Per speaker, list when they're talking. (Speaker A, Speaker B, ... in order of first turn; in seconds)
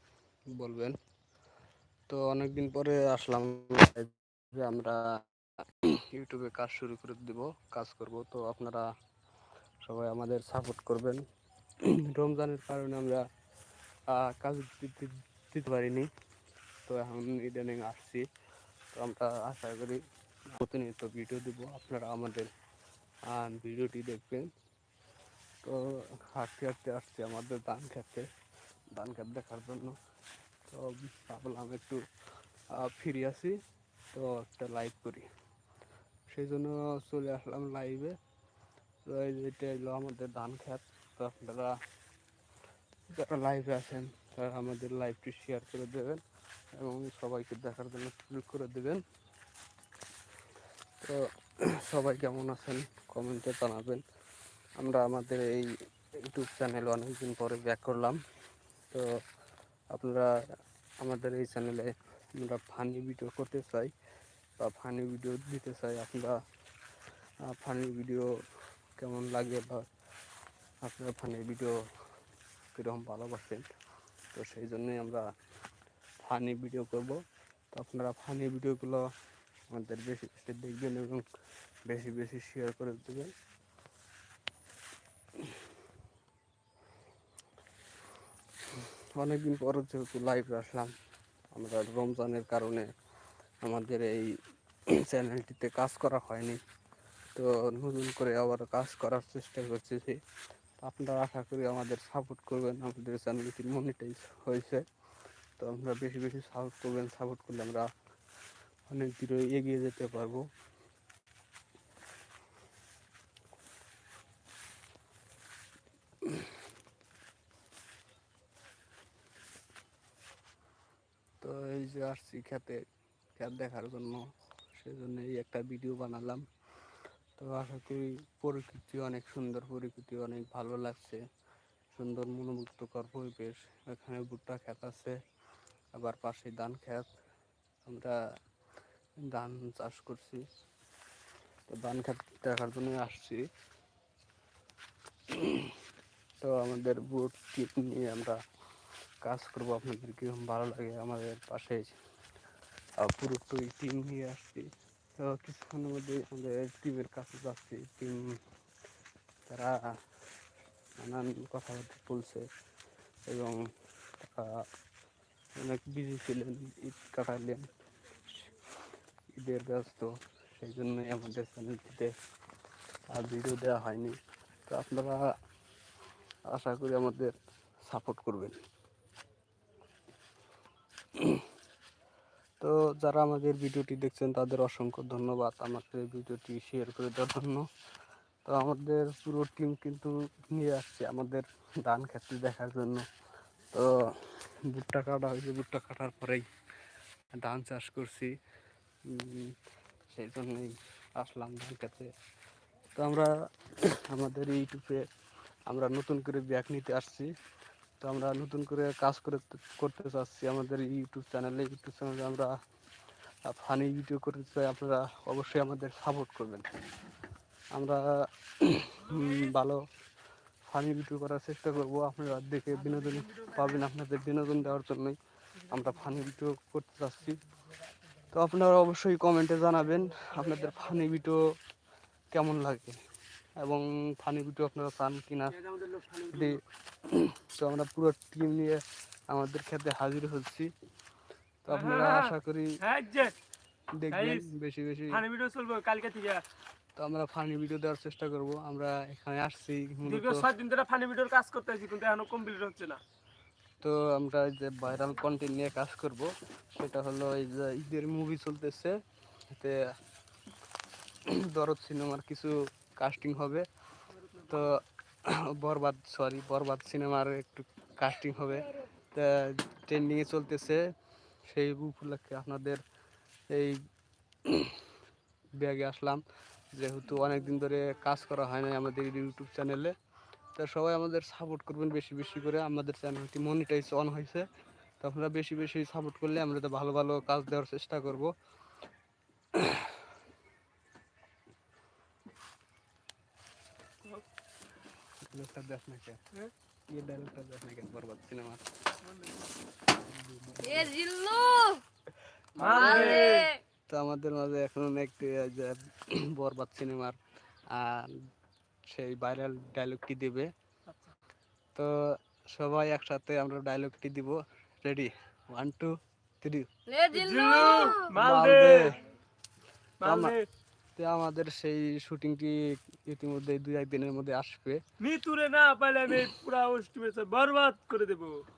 Speaker A: 0.5-0.9, 2.1-5.0, 6.1-8.8, 9.8-11.2, 11.9-13.2, 14.1-16.1, 16.9-18.2, 18.9-22.5, 23.3-24.5, 25.6-28.2, 28.9-30.0, 30.7-32.0, 32.7-33.6, 34.1-35.2, 36.3-38.1, 39.1-41.7, 43.1-46.2, 46.8-49.0, 51.8-54.0, 54.8-55.7, 56.2-58.2, 59.9-60.3, 61.0-63.9, 64.6-66.3, 67.5-68.3, 69.0-69.8, 70.8-71.7, 72.7-73.6, 74.3-75.2, 76.2-77.2, 77.7-79.0, 79.7-81.2, 81.9-83.3, 88.7-90.9, 91.5-92.9, 93.6-94.2, 94.9-96.6, 97.3-100.2, 100.8-104.8, 105.6-107.9, 108.9-110.5, 121.4-122.8, 123.4-124.2, 124.7-126.4, 127.4-131.2, 131.9-135.2, 135.9-137.1, 137.8-138.2, 139.3-140.4, 141.7-143.4, 145.3-145.7, 146.4-148.4, 149.2-151.9, 153.0-154.7, 155.2-158.3, 159.5-159.8, 161.0-162.4, 163.3-163.6, 164.2-164.5, 165.6-167.7, 169.4-172.1, 173.1-174.1, 174.7-175.2, 176.5-177.3, 177.8-178.5, 181.2-181.4, 182.6-187.7, 188.4-193.0, 193.7-196.4, 197.4-198.3, 199.1-199.5, 200.1-202.1, 202.9-203.3, 203.9-205.1, 205.7-207.3, 208.0-212.5, 213.5-216.7, 217.7-218.0, 218.6-219.8, 220.7-225.2, 225.7-227.4, 228.3-231.4, 232.3-233.0, 233.6-235.6, 236.3-240.7, 241.6-242.7, 244.0-245.2, 247.0-250.5, 253.8-258.9, 259.5-259.8, 261.4-263.7, 264.5-270.8, 271.5-272.8, 273.5-273.8, 274.5-274.8, 275.6-276.2, 276.7-279.9, 280.6-284.5, 285.0-288.3, 289.5-290.0, 295.2-296.2, 296.9-298.6, 300.1-300.9, 302.7-303.2, 303.9-307.2, 307.7-308.1, 308.9-310.5, 312.5-315.9, 316.4-316.7, 318.1-318.9, 320.0-320.4, 320.9-324.8
Speaker B: 219.1-219.4, 222.7-223.8, 225.6-226.2, 227.4-227.7, 229.8-231.2, 235.6-236.6, 241.7-243.3, 244.1-244.5, 245.1-246.4, 250.0-253.0, 264.1-264.8, 299.0-299.4, 302.6-303.5, 310.9-311.1, 317.1-319.0, 320.0-320.5, 325.0-328.3
Speaker C: 300.6-301.8, 302.6-303.6, 316.9-318.1